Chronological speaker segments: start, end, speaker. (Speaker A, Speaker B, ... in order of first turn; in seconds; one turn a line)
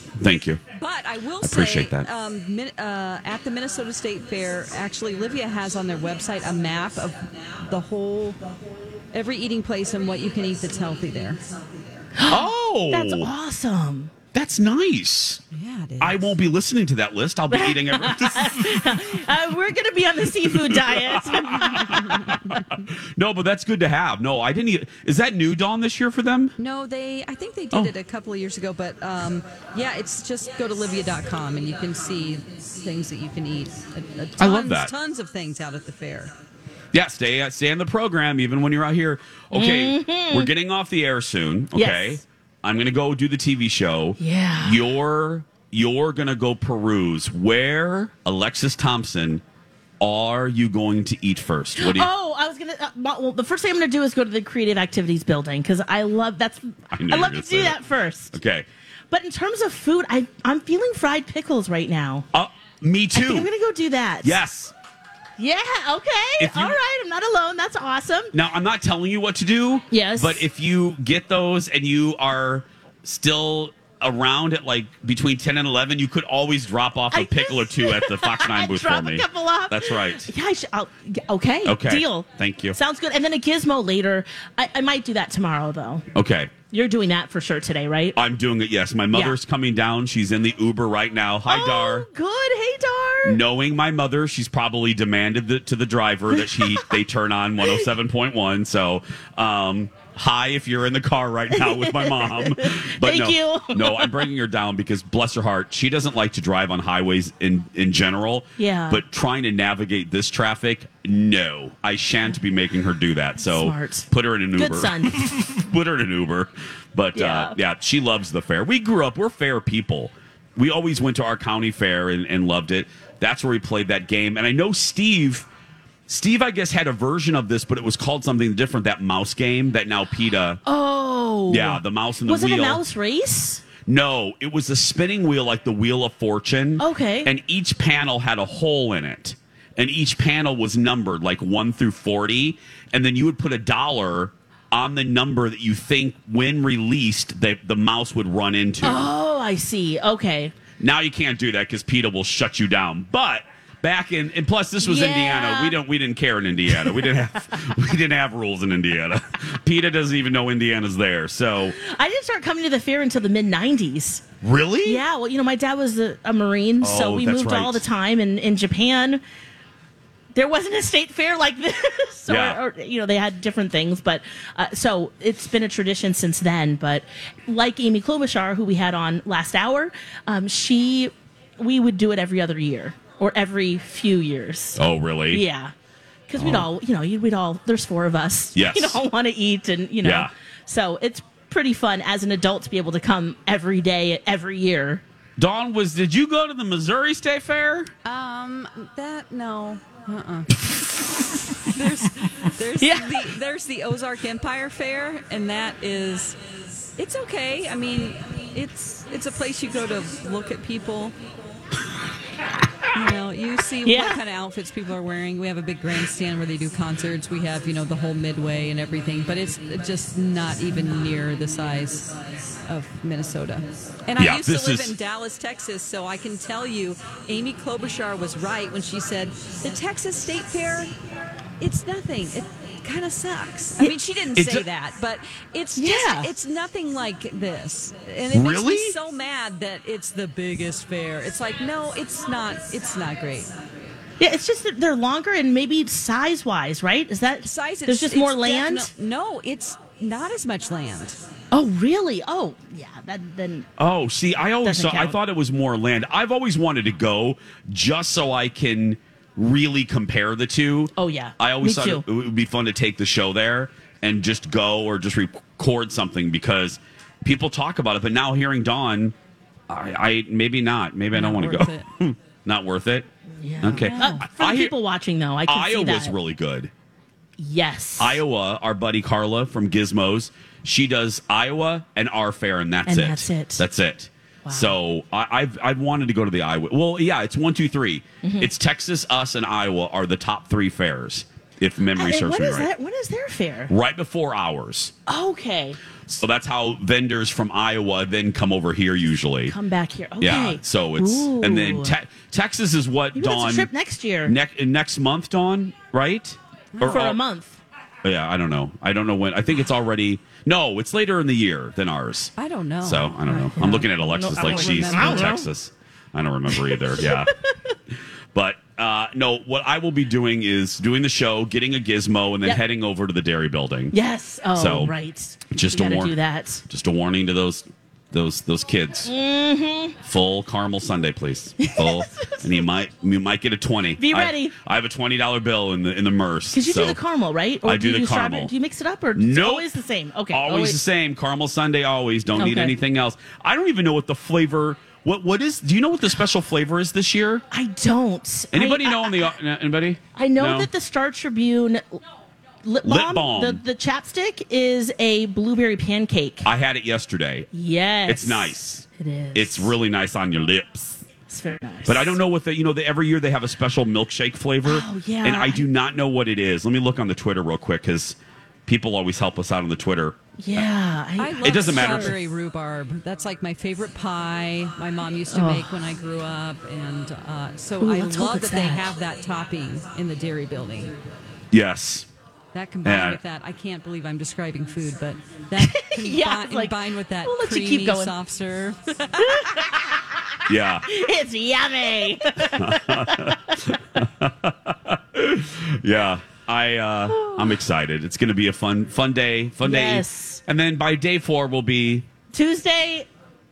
Speaker A: 0.2-0.6
Speaker B: 0.8-8.5
Speaker A: 1.4-2.1
Speaker B: 9.1-11.4
Speaker C: 12.2-14.1
Speaker A: 12.3-13.3
Speaker A: 14.3-15.4
Speaker B: 15.5-16.4
Speaker A: 16.0-19.2
Speaker C: 17.5-22.4
Speaker A: 20.5-26.6
Speaker B: 26.6-36.3
Speaker A: 34.4-34.9
Speaker A: 36.9-49.4
Speaker C: 39.5-40.5
Speaker C: 41.7-42.2
Speaker C: 44.2-44.8
Speaker A: 50.0-52.1
Speaker C: 51.8-58.4
Speaker A: 56.9-57.8
Speaker A: 58.3-58.7
Speaker C: 59.1-62.3
Speaker A: 62.3-63.5
Speaker C: 63.1-64.4
Speaker A: 64.2-64.7
Speaker C: 65.4-68.3
Speaker A: 66.4-66.8
Speaker A: 68.3-80.3
Speaker C: 69.9-70.5
Speaker C: 77.1-86.0
Speaker A: 81.7-82.8
Speaker A: 86.2-86.5
Speaker C: 86.7-88.2
Speaker A: 88.2-92.1
Speaker C: 91.5-93.4
Speaker A: 93.2-125.5
Speaker C: 96.5-96.8
Speaker C: 101.5-104.2
Speaker C: 108.6-109.0
Speaker C: 113.4-115.2
Speaker C: 117.2-117.6
Speaker A: 126.1-130.6
Speaker C: 130.7-133.6
Speaker A: 131.5-132.8
Speaker A: 133.9-149.1
Speaker C: 136.8-137.3
Speaker C: 148.8-150.6
Speaker A: 150.8-161.7
Speaker C: 154.8-155.8
Speaker C: 161.8-164.2
Speaker A: 164.4-165.0
Speaker C: 164.8-169.2
Speaker A: 166.8-167.8
Speaker C: 170.3-185.7
Speaker A: 172.3-172.6
Speaker A: 184.8-185.4
Speaker C: 186.3-195.0
Speaker A: 186.4-186.7
Speaker A: 188.6-189.0
Speaker A: 190.0-190.3
Speaker A: 195.4-197.9
Speaker B: 198.1-200.5
Speaker B: 201.6-206.4
Speaker C: 202.8-203.2
Speaker B: 207.0-211.1
Speaker B: 212.9-222.1
Speaker C: 213.9-214.2
Speaker B: 222.7-230.9
Speaker A: 224.2-224.9
Speaker B: 231.6-243.5
Speaker A: 234.3-234.6
Speaker C: 235.8-236.3
Speaker A: 238.3-238.9
Speaker C: 244.2-248.9
Speaker B: 247.4-251.2
Speaker C: 251.5-253.7
Speaker A: 253.8-269.1
Speaker C: 254.6-255.2
Speaker C: 260.9-262.0
Speaker A: 269.7-273.1
Speaker B: 271.1-271.9
Speaker C: 273.4-276.1
Speaker A: 273.6-274.7
Speaker B: 273.8-274.2
Speaker A: 275.5-276.7
Speaker C: 277.4-278.2
Speaker A: 278.0-292.7
Speaker C: 282.9-283.6
Speaker C: 284.4-284.7
Speaker C: 288.2-288.5
Speaker C: 291.9-293.7
Speaker A: 293.7-294.9
Speaker C: 295.1-295.8
Speaker A: 296.1-299.6
Speaker C: 299.5-301.9
Speaker A: 300.2-303.7
Speaker C: 303.1-304.3
Speaker A: 304.2-307.2
Speaker B: 306.7-307.0
Speaker C: 306.9-307.6
Speaker A: 308.0-312.3
Speaker B: 312.4-315.4
Speaker A: 312.8-317.4
Speaker C: 313.6-315.5
Speaker C: 316.5-317.7
Speaker A: 317.9-323.9
Speaker C: 323.9-326.6
Speaker A: 324.6-324.9
Speaker A: 325.5-326.2
Speaker A: 326.7-329.1
Speaker C: 329.1-329.9
Speaker A: 330.0-337.0
Speaker C: 331.6-332.7
Speaker C: 334.0-334.6
Speaker C: 336.5-340.8
Speaker A: 337.6-338.5
Speaker A: 339.1-339.7
Speaker A: 340.3-347.4
Speaker C: 342.4-342.7
Speaker C: 347.5-349.3
Speaker A: 348.5-350.7
Speaker C: 350.1-352.0
Speaker C: 352.6-356.5
Speaker A: 352.8-353.6
Speaker A: 356.4-357.5
Speaker C: 357.5-359.7
Speaker A: 358.1-361.0
Speaker C: 361.3-362.2
Speaker A: 361.9-370.2
Speaker C: 364.7-365.7
Speaker C: 370.4-372.1
Speaker B: 371.2-380.9
Speaker A: 371.4-372.2
Speaker C: 375.3-375.7
Speaker C: 377.8-378.9
Speaker A: 381.5-382.1
Speaker B: 382.5-389.6
Speaker A: 382.8-383.2
Speaker C: 385.6-388.1
Speaker C: 389.2-390.0
Speaker A: 390.5-390.9
Speaker C: 390.9-393.6
Speaker A: 392.4-402.1
Speaker C: 397.1-397.6
Speaker C: 399.6-400.4
Speaker C: 402.3-403.1